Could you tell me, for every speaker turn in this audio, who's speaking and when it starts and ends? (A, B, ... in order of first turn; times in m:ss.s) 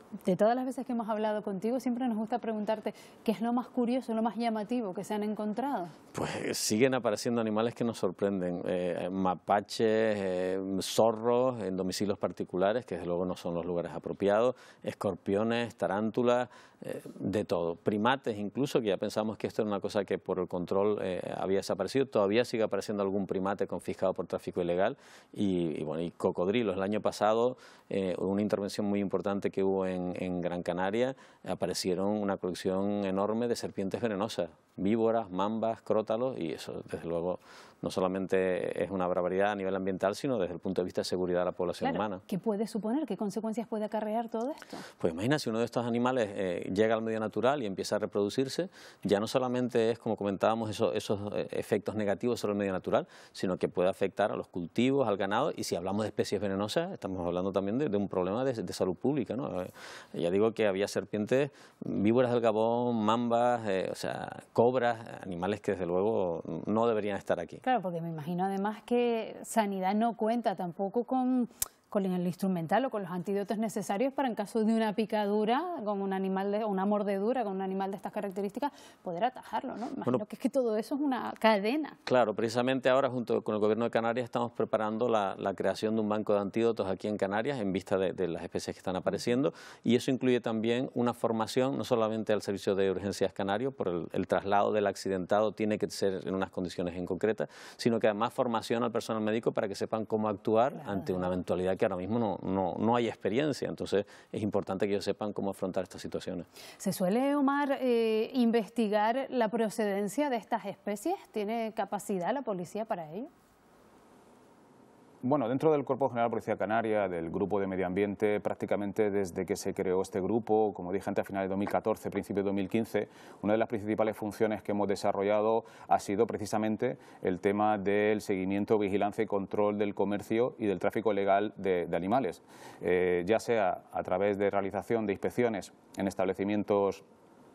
0:00.2-0:05.9 A
0:06.1-0:42.2 B
0:41.8-0:44.8 A
0:45.0-1:07.6 B
1:07.6-1:22.0 A
1:22.1-1:46.4 B
1:46.8-1:53.3 A
1:55.2-2:17.0 C